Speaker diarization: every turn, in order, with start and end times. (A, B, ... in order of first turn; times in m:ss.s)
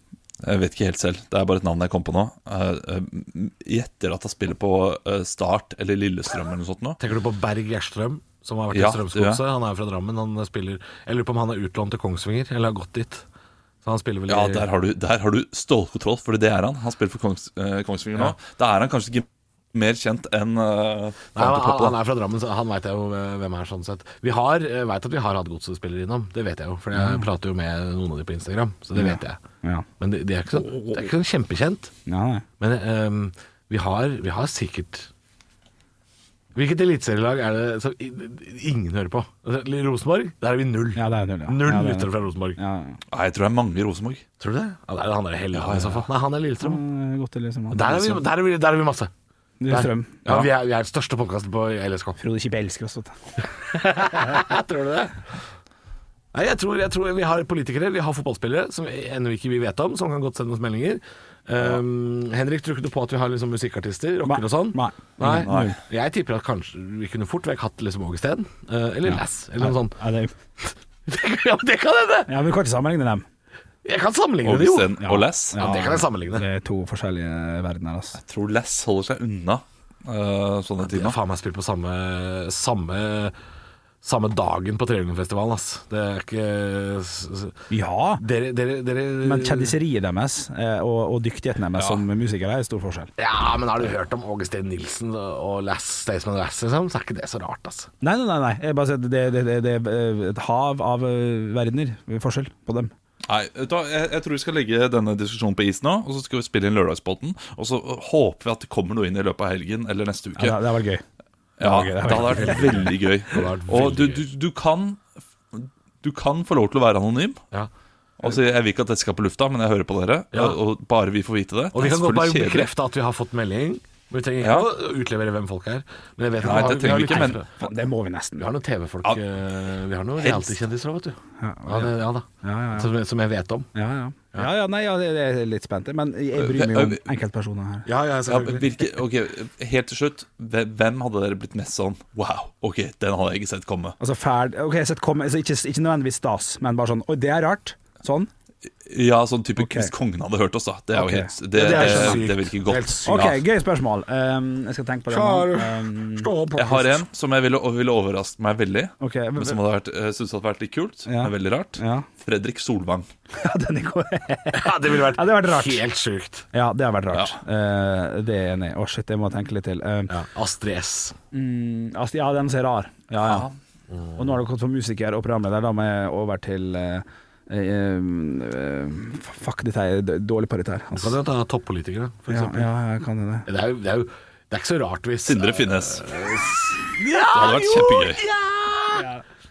0:00.4-0:07.0 A
0:07.0-0:13.2 B
0:08.7-0:09.4 A
0:13.8-0:14.7 B
0:14.3-0:22.0 A
0:21.4-0:29.4 B
0:26.9-0:27.3 C
0:28.9-0:29.8 C
0:30.0-0:31.9 B
0:32.0-0:32.4 C
0:32.6-0:35.1 B
0:36.5-0:42.6 B
0:41.0-0:43.0 C
0:43.1-0:44.2 A
0:44.4-0:46.8 B
0:45.5-0:46.0 A
0:46.6-0:48.0 C
0:47.7-0:49.1 B
0:49.6-0:50.2 C
0:49.7-0:52.2 B
0:52.2-0:53.1 C
0:53.7-0:55.2 B
0:56.3-1:10.0 B
1:04.2-1:05.8 C
1:05.3-1:05.8 A
1:09.0-1:10.3 C
1:10.6-1:12.3 B
1:12.3-1:13.2 C
1:13.8-1:16.4 B
1:14.4-1:15.6 A
1:15.0-1:18.2 C
1:18.2-1:21.2 A
1:20.8-1:23.3 B
1:24.0-1:27.6 B
1:27.7-1:28.2 C
1:28.2-1:29.8 B
1:29.2-1:33.1 C
1:31.8-1:32.0 A
1:33.2-1:37.9 B
1:38.0-1:42.9 C
1:43.3-1:50.6 A
1:50.4-1:51.0 C
1:51.6-1:57.4 A
1:51.6-1:52.9 C
1:52.0-1:54.2 B
1:58.2-2:02.7 A
2:00.3-2:00.6 B
2:01.7-2:07.5 B
2:04.4-2:04.7 A
2:06.4-2:07.4 A
2:06.6-2:08.5 C
2:08.4-2:13.7 B
2:10.2-2:10.6 A
2:11.4-2:12.9 C
2:13.7-2:17.9 C
2:16.4-2:17.0 A
2:17.8-2:18.8 B
2:18.3-2:24.0 A
2:24.0-2:28.3 C
2:28.8-2:33.4 A
2:29.6-2:29.9 C
2:30.9-2:32.2 C
2:31.5-2:33.4 B
2:33.0-2:36.3 C
2:35.1-2:37.0 B
2:36.6-2:43.1 A
2:39.0-2:39.6 C
2:41.0-2:42.1 C
2:43.4-2:45.8 C
2:44.5-2:46.5 B
2:46.5-2:50.1 C
2:50.1-2:51.1 B
2:51.3-2:53.5 C
2:53.2-2:53.5 A
2:53.9-2:54.3 B
2:54.2-3:01.1 C
3:00.9-3:02.7 B
3:02.3-3:03.4 C
3:03.4-3:09.1 B
3:05.2-3:06.0 A
3:07.3-3:08.2 A
3:08.9-3:09.2 C